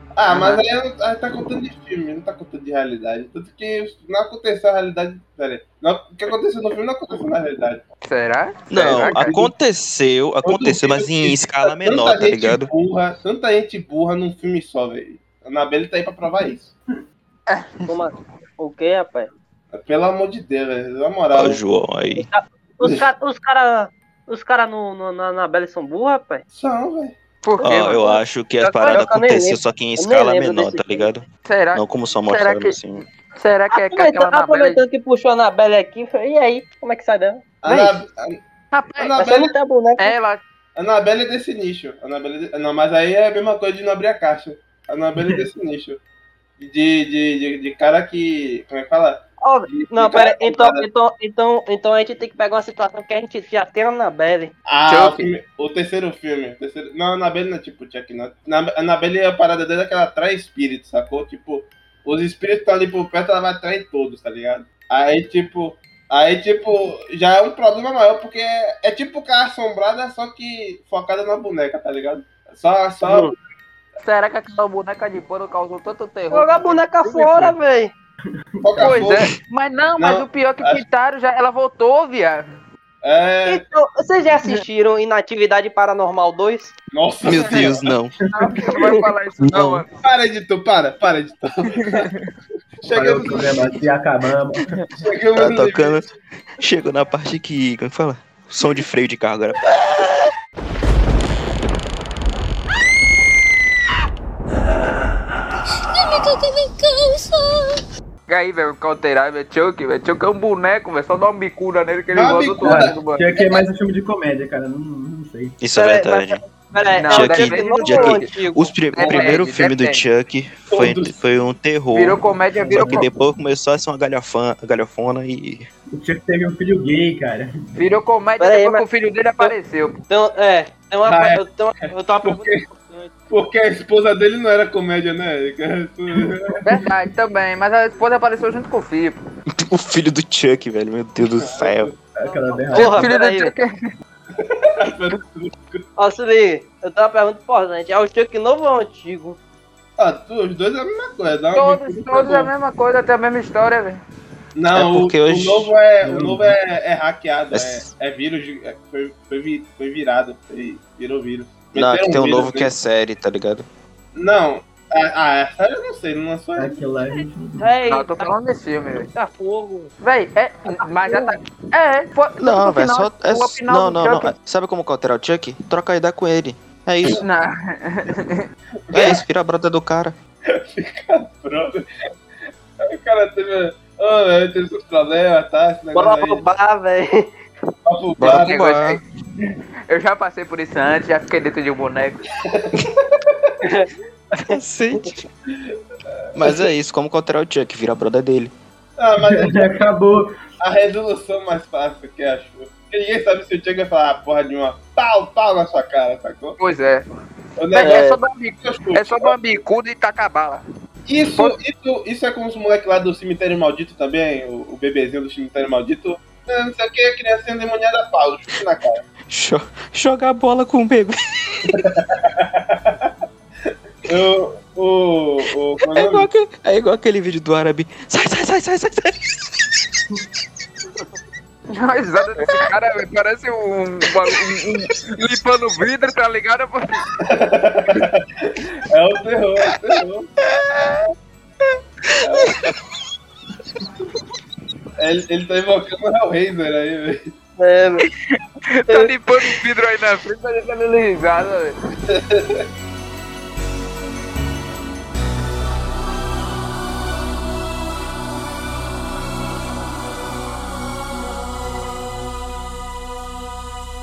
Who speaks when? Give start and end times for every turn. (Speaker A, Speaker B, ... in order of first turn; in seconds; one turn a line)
Speaker A: 0.2-7.8
Speaker B: 0.3-0.6
Speaker B: 8.0-9.4
Speaker C: 8.7-12.7
Speaker A: 8.8-9.3
Speaker A: 10.4-16.7
Speaker B: 17.5-17.9
Speaker D: 17.9-19.3
Speaker A: 19.7-21.6
Speaker C: 21.3-22.3
Speaker D: 22.1-26.4
Speaker A: 26.5-27.1
Speaker B: 27.4-28.2
Speaker C: 27.6-33.0
Speaker D: 28.6-31.1
Speaker B: 31.4-32.8
Speaker B: 33.4-34.8
Speaker D: 33.7-38.0
Speaker A: 37.6-38.4
Speaker B: 38.7-39.1
Speaker A: 39.0-39.5
Speaker D: 39.2-40.1
Speaker B: 40.0-40.4
Speaker A: 40.8-46.0
Speaker A: 46.6-50.9
Speaker D: 49.4-54.5
Speaker A: 54.7-73.3
Speaker B: 54.9-55.3
Speaker D: 73.0-73.3
Speaker B: 74.0-77.6
Speaker D: 76.3-77.9
Speaker E: 78.6-79.1
Speaker A: 78.6-79.3
Speaker B: 78.8-82.5
Speaker A: 80.0-80.8
Speaker A: 83.0-83.6
Speaker D: 83.5-86.8
Speaker A: 86.9-87.9
Speaker C: 87.2-88.2
Speaker E: 88.3-88.7
Speaker B: 88.3-89.9
Speaker D: 88.7-89.0
Speaker C: 89.5-89.8
Speaker A: 90.0-92.1
Speaker B: 91.8-92.3
Speaker A: 92.8-93.9
Speaker E: 92.9-94.8
Speaker A: 95.0-96.0
Speaker C: 95.4-96.1
Speaker C: 96.6-100.3
Speaker B: 106.0-107.6
Speaker B: 108.3-113.4
Speaker A: 112.1-113.0
Speaker E: 112.6-115.6
Speaker C: 115.6-116.4
Speaker D: 115.7-119.4
Speaker B: 117.0-118.3
Speaker C: 117.1-125.7
Speaker B: 118.9-120.0
Speaker A: 120.7-121.2
Speaker B: 121.9-123.1
Speaker E: 122.6-123.1
Speaker E: 125.9-127.5
Speaker B: 127.8-130.0
Speaker D: 128.4-128.8
Speaker D: 130.1-133.1
Speaker A: 131.1-131.4
Speaker A: 132.2-132.6
Speaker A: 133.3-136.6
Speaker B: 136.6-139.2
Speaker C: 139.5-141.9
Speaker A: 141.4-142.0
Speaker E: 142.2-143.1
Speaker D: 142.2-143.5
Speaker B: 142.7-143.7
Speaker A: 144.4-145.8
Speaker D: 146.0-149.4
Speaker A: 150.0-152.5
Speaker B: 151.6-154.0
Speaker A: 154.6-162.7
Speaker C: 154.7-155.8
Speaker E: 156.1-156.5
Speaker C: 157.5-157.9
Speaker C: 161.7-163.7
Speaker A: 164.1-166.9
Speaker E: 166.6-167.8
Speaker D: 167.6-168.3
Speaker B: 167.9-169.1
Speaker D: 169.1-169.9
Speaker B: 170.0-174.3
Speaker D: 170.7-171.3
Speaker C: 172.4-177.2
Speaker B: 177.1-178.5
Speaker A: 178.9-179.2
Speaker C: 178.9-180.2
Speaker A: 180.5-181.8
Speaker A: 182.8-186.5
Speaker D: 185.9-187.3
Speaker A: 187.9-188.7
Speaker C: 188.2-189.0
Speaker B: 188.2-192.3
Speaker A: 192.4-193.5
Speaker D: 193.6-195.1
Speaker C: 194.4-195.3
Speaker C: 196.3-198.5
Speaker A: 199.0-199.9
Speaker E: 199.2-200.4
Speaker A: 200.6-206.6
Speaker B: 206.6-207.1
Speaker A: 207.6-208.1
Speaker B: 207.7-210.6
Speaker D: 207.8-208.2
Speaker A: 208.6-209.4
Speaker A: 211.1-219.0
Speaker C: 219.3-221.9
Speaker A: 221.8-223.1
Speaker A: 224.1-226.3
Speaker C: 225.9-229.8
Speaker B: 231.7-237.1
Speaker A: 237.2-240.3
Speaker A: 242.2-242.7
Speaker A: 245.0-247.3
Speaker D: 247.6-248.1
Speaker B: 248.1-251.8
Speaker A: 252.1-252.7